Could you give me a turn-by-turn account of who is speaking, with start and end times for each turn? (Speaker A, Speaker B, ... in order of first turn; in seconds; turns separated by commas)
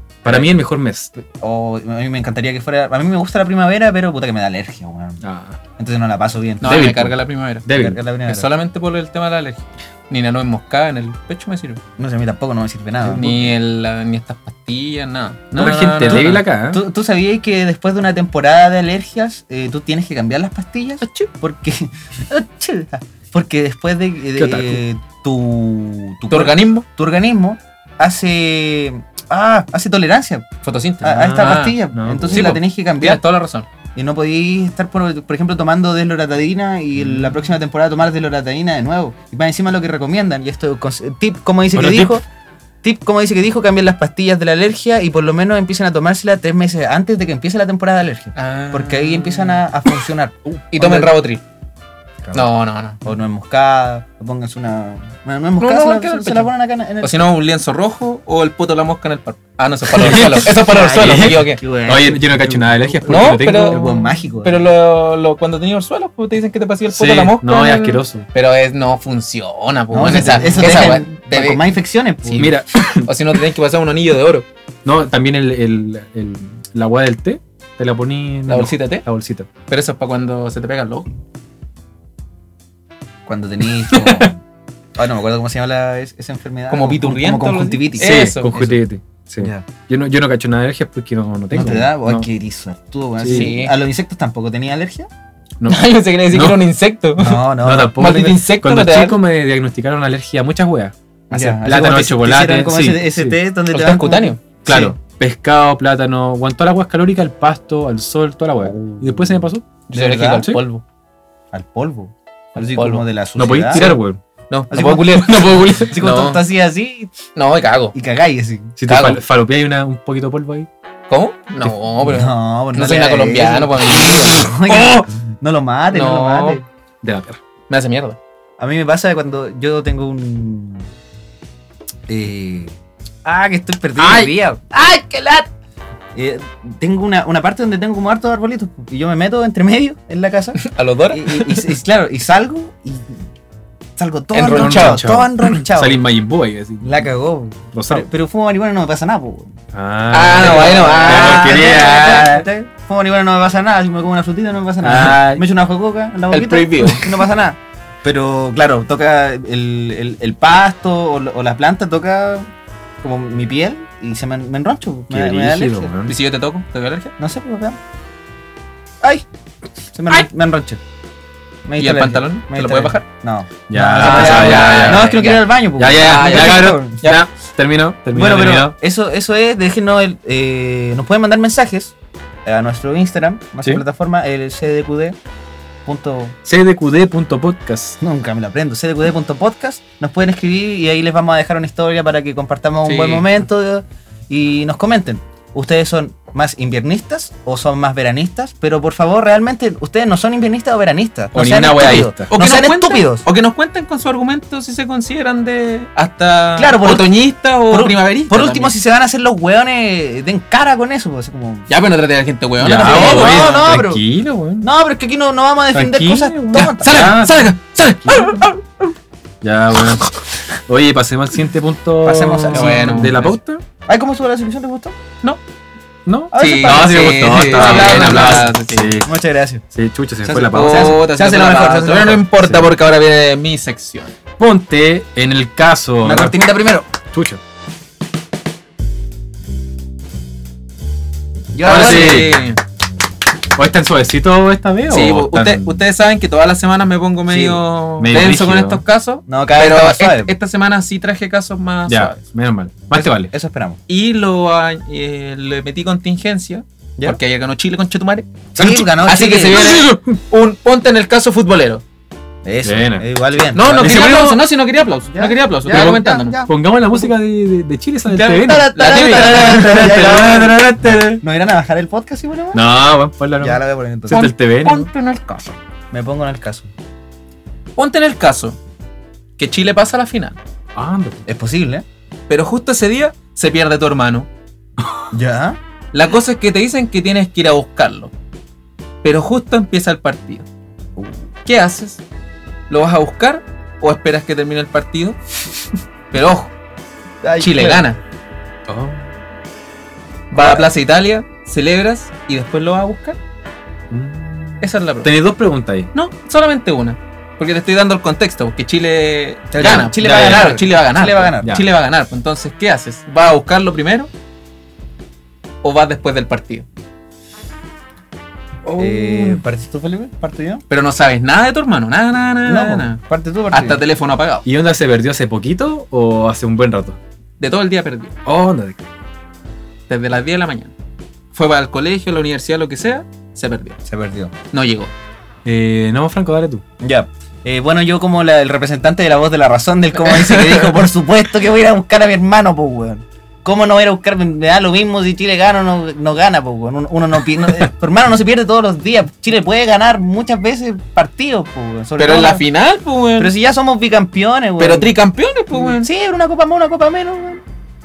Speaker A: 0.2-1.2, Speaker B: 0.2-0.5, Speaker B: 1.4-5.2, Speaker A: 5.2-5.6, Speaker B: 5.8-6.8, Speaker C: 6.6-7.7, Speaker A: 6.6-8.0, Speaker B: 7.7-8.5, Speaker C: 8.3-11.8, Speaker B: 12.0-13.3, Speaker A: 13.0-13.5, Speaker C: 13.2-16.4, Speaker A: 15.6-16.8, Speaker B: 15.7-30.4, Speaker C: 21.0-21.3, Speaker A: 24.4-24.8, Speaker C: 26.3-26.9, Speaker C: 30.6-31.8, Speaker B: 31.0-33.2, Speaker A: 31.1-32.6, Speaker C: 32.3-33.7, Speaker B: 34.0-42.2, Speaker A: 37.0-37.4, Speaker A: 41.7-42.2, Speaker B: 42.8-51.1, Speaker C: 48.4-49.6, Speaker C: 50.7-51.4, Speaker B: 52.2-52.5, Speaker C: 52.3-53.0, Speaker B: 53.0-57.2, Speaker C: 55.6-61.6, Speaker A: 59.9-63.9, Speaker B: 60.1-64.6, Speaker C: 63.1-71.7, Speaker A: 66.9-68.3, Speaker B: 69.9-72.5, Speaker A: 70.3-70.8, Speaker C: 72.3-74.5, Speaker A: 72.4-73.1, Speaker A: 74.8-79.5, Speaker C: 78.5-79.0, Speaker C: 79.7-81.1, Speaker B: 83.3-84.4, Speaker A: 83.9-84.3, Speaker B: 85.0-88.2, Speaker C: 86.7-88.8, Speaker A: 88.0-92.3, Speaker B: 89.4-89.7, Speaker B: 91.5-95.1, Speaker A: 93.2-93.5, Speaker C: 93.3-93.8, Speaker A: 95.6-96.6, Speaker C: 95.7-99.2, Speaker B: 97.2-98.0, Speaker A: 97.6-103.4, Speaker B: 101.3-105.0, Speaker C: 103.7-104.4, Speaker A: 104.7-109.7, Speaker C: 109.9-110.8, Speaker B: 109.9-110.5, Speaker B: 111.5-113.9, Speaker C: 112.8-113.0, Speaker A: 113.4-114.2, Speaker C: 113.7-116.4, Speaker B: 114.7-117.2, Speaker A: 115.2-115.9, Speaker C: 117.3-118.0, Speaker B: 117.9-118.8, Speaker A: 118.8-120.7, Speaker C: 118.9-119.2, Speaker C: 121.1-124.6, Speaker B: 122.0-126.6, Speaker A: 124.7-125.1, Speaker C: 125.9-126.6, Speaker A: 127.0-127.4, Speaker C: 127.7-128.2, Speaker B: 128.6-130.9, Speaker B: 132.1-135.5, Speaker C: 134.0-134.3, Speaker B: 136.2-143.2, Speaker C: 140.6-141.7, Speaker B: 144.0-146.0, Speaker C: 144.3-145.1, Speaker A: 144.5-147.1, Speaker B: 146.8-149.6, Speaker A: 147.7-148.1, Speaker A: 149.7-152.5, Speaker C: 150.1-152.3, Speaker B: 150.3-162.5, Speaker A: 154.8-155.4, Speaker C: 156.3-157.2, Speaker B: 163.0-165.9, Speaker A: 165.1-166.2, Speaker C: 166.1-167.1, Speaker B: 167.2-167.8, Speaker B: 169.9-170.8, Speaker B: 171.7-177.0, Speaker C: 171.8-173.1, Speaker A: 173.7-175.1, Speaker C: 174.0-177.2, Speaker A: 175.8-178.8, Speaker B: 178.1-185.2, Speaker B: 185.9-186.4, Speaker A: 186.4-188.0, Speaker B: 188.0-203.2, Speaker C: 192.8-193.3, Speaker A: 201.3-202.3, Speaker C: 201.7-208.7, Speaker B: 206.6-207.1, Speaker B: 207.7-211.7, Speaker C: 211.7-213.7, Speaker A: 212.6-214.7, Speaker B: 212.7-214.0, Speaker B: 214.6-217.2, Speaker A: 215.7-217.5, Speaker C: 216.6-218.6, Speaker A: 218.0-218.5, Speaker A: 219.4-223.6, Speaker B: 222.0-223.1, Speaker C: 222.5-223.4, Speaker B: 223.9-225.0, Speaker A: 226.1-229.1, Speaker B: 226.3-228.5, Speaker C: 226.4-228.9, Speaker B: 229.1-229.6, Speaker A: 229.7-231.0, Speaker B: 230.2-232.3, Speaker C: 230.5-234.1, Speaker A: 234.4-236.5, Speaker B: 236.0-236.9, Speaker A: 237.1-237.4, Speaker B: 241.5-242.3, Speaker A: 241.7-242.4, Speaker C: 241.7-242.6, Speaker A: 243.6-245.8, Speaker C: 244.9-252.2, Speaker B: 247.3-247.6, Speaker A: 248.0-248.8, Speaker B: 249.3-250.3, Speaker A: 251.9-253.3, Speaker B: 252.9-253.8, Speaker C: 253.9-261.8, Speaker B: 258.5-259.8, Speaker A: 258.6-258.9, Speaker A: 259.5-260.0, Speaker B: 262.4-264.3, Speaker A: 262.6-264.4, Speaker C: 263.5-266.4, Speaker B: 265.1-267.1, Speaker A: 265.7-271.2, Speaker B: 268.1-272.6, Speaker C: 268.8-270.6, Speaker A: 272.5-274.9, Speaker B: 273.4-274.2, Speaker C: 274.1-275.6, Speaker B: 275.9-276.7, Speaker C: 277.8-278.6, Speaker C: 279.4-280.4, Speaker A: 280.8-281.2, Speaker B: 281.3-281.8, Speaker C: 282.3-284.3, Speaker B: 285.1-285.6, Speaker C: 285.9-288.1, Speaker C: 289.0-290.5, Speaker B: 291.0-291.2, Speaker C: 291.5-292.0, Speaker C: 292.7-295.2, Speaker C: 296.1-296.5, Speaker B: 297.2-297.9, Speaker C: 297.4-298.0, Speaker A: 298.7-299.1, Speaker C: 300.3-303.2, Speaker B: 300.3-300.7, Speaker A: 303.9-305.9, Speaker C: 304.6-305.1, Speaker C: 305.9-314.1, Speaker B: 309.5-311.6, Speaker A: 310.0-310.5, Speaker A: 311.4-311.7, Speaker C: 315.6-316.7, Speaker A: 318.6-319.4, Speaker B: 318.8-320.6, Speaker C: 320.7-323.0, Speaker B: 322.5-323.8, Speaker C: 323.5-324.4, Speaker A: 324.4-327.0, Speaker C: 327.4-328.1, Speaker A: 328.3-328.8, Speaker C: 329.9-330.7, Speaker C: 331.3-333.8, Speaker B: 333.9-334.3, Speaker C: 334.5-334.9, Speaker A: 335.4-336.6, Speaker B: 336.8-352.4, Speaker C: 340.1-340.8, Speaker C: 352.0-353.3, Speaker B: 353.2-355.0, Speaker C: 354.6-355.9, Speaker B: 355.6-357.4